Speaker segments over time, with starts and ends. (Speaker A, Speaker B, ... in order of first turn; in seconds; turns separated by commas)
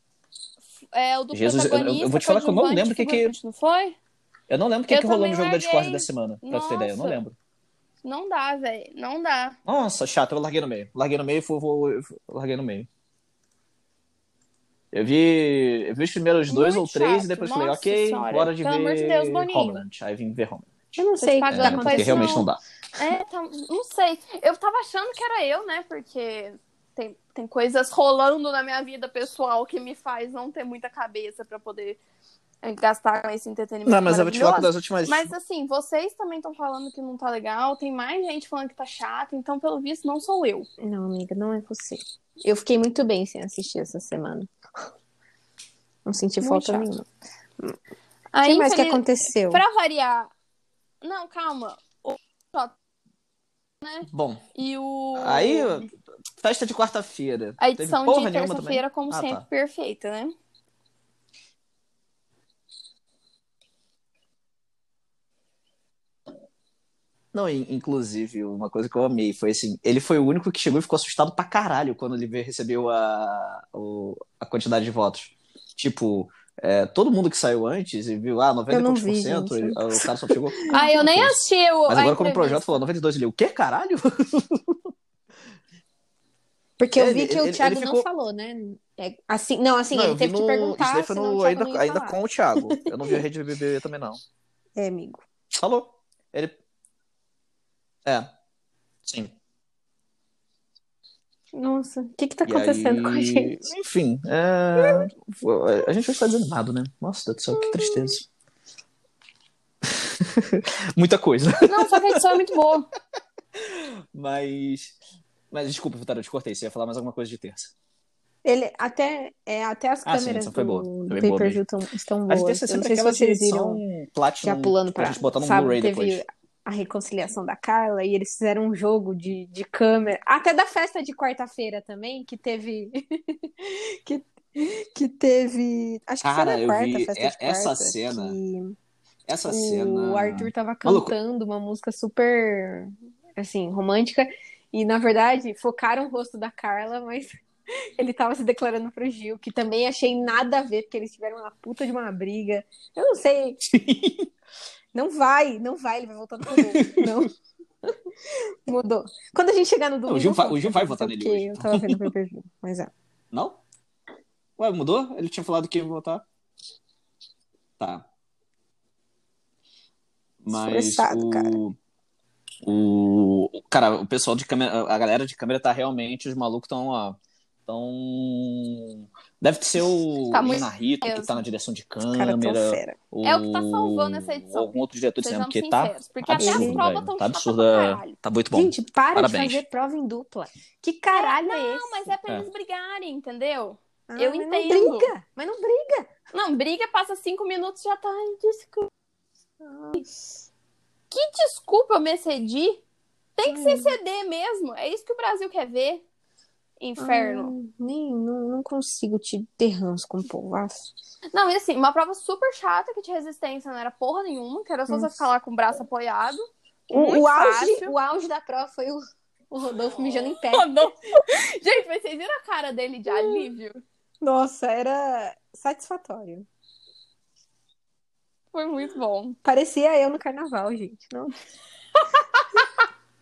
Speaker A: 0.9-4.0, Speaker B: 1.3-3.3, Speaker B: 4.5-7.3, Speaker A: 4.9-7.2, Speaker A: 8.0-9.6, Speaker B: 9.7-12.9, Speaker B: 14.9-22.6, Speaker A: 16.5-19.8, Speaker C: 21.0-22.4, Speaker A: 21.2-22.5, Speaker A: 23.0-32.0, Speaker A: 32.6-40.7, Speaker B: 33.9-35.3, Speaker C: 40.8-44.9, Speaker C: 46.1-47.1, Speaker A: 46.4-46.9, Speaker A: 48.3-50.3, Speaker C: 48.4-49.6, Speaker A: 51.0-52.8, Speaker A: 53.8-55.9, Speaker B: 54.1-54.4, Speaker B: 55.1-59.5, Speaker A: 57.6-60.3, Speaker B: 67.3-84.8, Speaker C: 78.7-80.1, Speaker C: 80.7-81.0, Speaker A: 80.7-82.8, Speaker C: 86.8-92.2, Speaker B: 87.0-88.0, Speaker B: 89.9-94.2, Speaker C: 92.7-93.2, Speaker C: 94.8-95.2, Speaker B: 95.6-96.6, Speaker B: 98.0-98.3, Speaker B: 99.1-99.3, Speaker C: 101.5-103.7, Speaker B: 102.5-108.3, Speaker C: 104.8-105.1, Speaker C: 107.5-108.2, Speaker B: 109.8-112.4, Speaker A: 111.7-112.9, Speaker B: 113.6-115.0, Speaker B: 115.5-117.7, Speaker C: 118.4-123.8, Speaker B: 120.1-121.6, Speaker B: 122.3-126.2, Speaker C: 124.4-138.8, Speaker B: 136.2-138.4, Speaker B: 139.3-141.1, Speaker C: 139.5-147.4, Speaker C: 148.0-153.6, Speaker B: 153.6-154.3, Speaker C: 154.9-157.3, Speaker B: 156.5-157.3, Speaker C: 157.8-162.9, Speaker B: 160.1-162.1, Speaker B: 163.3-163.6, Speaker B: 164.6-166.2, Speaker B: 167.8-168.1, Speaker B: 170.4-171.8, Speaker C: 170.5-171.6, Speaker B: 172.7-189.6, Speaker A: 180.3-181.4, Speaker C: 182.1-183.0, Speaker A: 183.2-188.2, Speaker C: 186.4-186.8, Speaker C: 188.5-192.1, Speaker A: 191.1-195.1, Speaker C: 194.1-196.1, Speaker A: 196.3-198.9, Speaker C: 199.6-200.1, Speaker A: 201.1-202.8, Speaker A: 203.4-206.0, Speaker C: 203.4-204.0, Speaker A: 206.8-207.5, Speaker C: 207.0-210.9, Speaker A: 211.3-217.9, Speaker C: 214.9-215.2, Speaker C: 216.9-220.8, Speaker A: 220.0-223.8, Speaker C: 223.1-223.5, Speaker C: 224.2-226.5, Speaker A: 228.5-229.4, Speaker C: 229.4-231.3